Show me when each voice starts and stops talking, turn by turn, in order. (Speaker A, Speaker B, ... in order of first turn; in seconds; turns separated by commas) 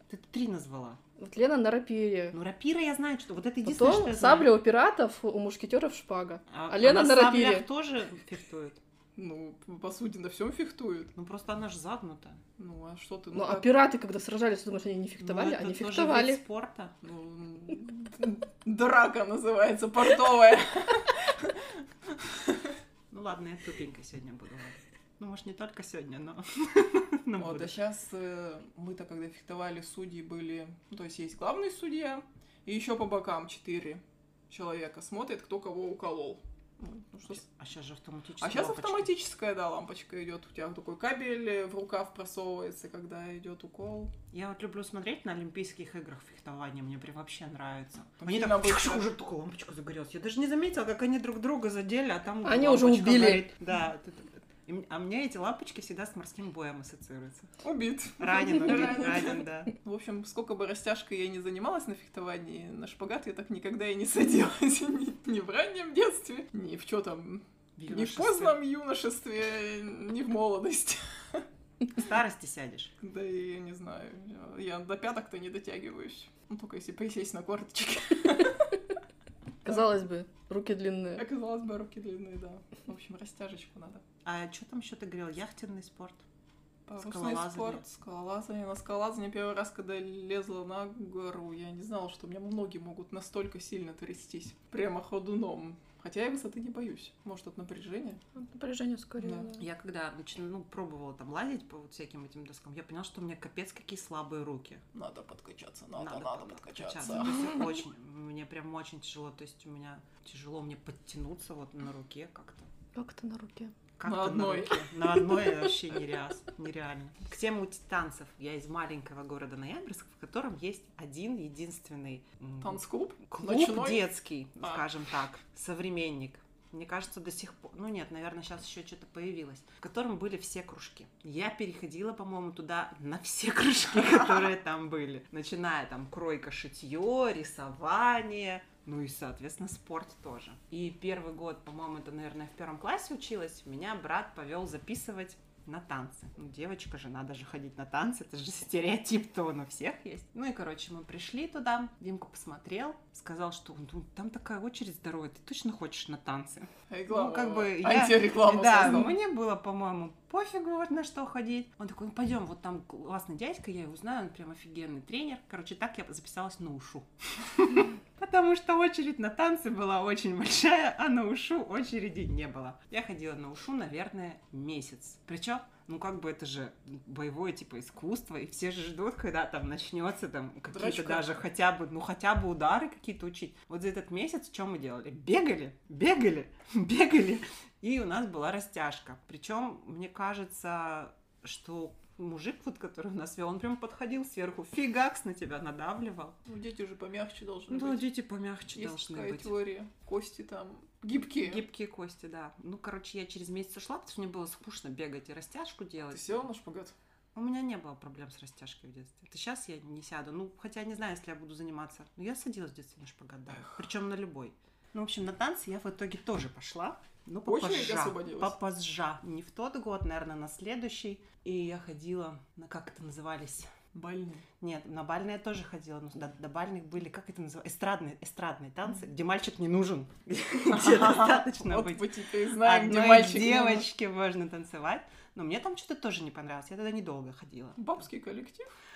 Speaker A: 0.1-1.0, Speaker B: 1.2-2.4, Speaker A: 2.3-4.5, Speaker B: 3.6-7.7, Speaker A: 6.5-8.8, Speaker C: 9.2-11.1, Speaker A: 11.2-12.4, Speaker C: 12.6-13.8, Speaker B: 13.3-16.4, Speaker A: 15.2-16.9, Speaker C: 17.0-22.7, Speaker A: 23.1-27.8, Speaker C: 27.4-37.4, Speaker A: 37.3-39.1, Speaker C: 38.4-44.1, Speaker A: 44.3-57.5, Speaker C: 48.2-49.1, Speaker B: 52.4-53.5, Speaker C: 57.6-71.5, Speaker A: 58.2-59.7, Speaker A: 67.8-68.6, Speaker A: 71.9-72.9, Speaker C: 73.0-78.8, Speaker B: 79.6-81.3, Speaker C: 81.2-84.0, Speaker A: 84.2-86.2, Speaker C: 86.9-98.2, Speaker A: 87.0-87.8, Speaker B: 98.4-99.6, Speaker C: 99.2-99.5, Speaker A: 99.6-104.8, Speaker C: 104.9-107.5, Speaker A: 106.0-112.7, Speaker B: 113.0-113.7, Speaker A: 114.0-196.4, Speaker C: 114.0-115.1, Speaker C: 122.6-124.1, Speaker C: 156.9-159.2, Speaker C: 180.7-181.4, Speaker C: 196.5-198.1, Speaker A: 197.7-199.5, Speaker C: 198.7-201.7, Speaker A: 201.4-206.4, Speaker C: 206.1-206.9, Speaker A: 207.3-223.7, Speaker C: 217.4-218.6, Speaker C: 223.9-224.5, Speaker A: 224.6-237.9, Speaker C: 230.7-233.9, Speaker C: 237.8-238.7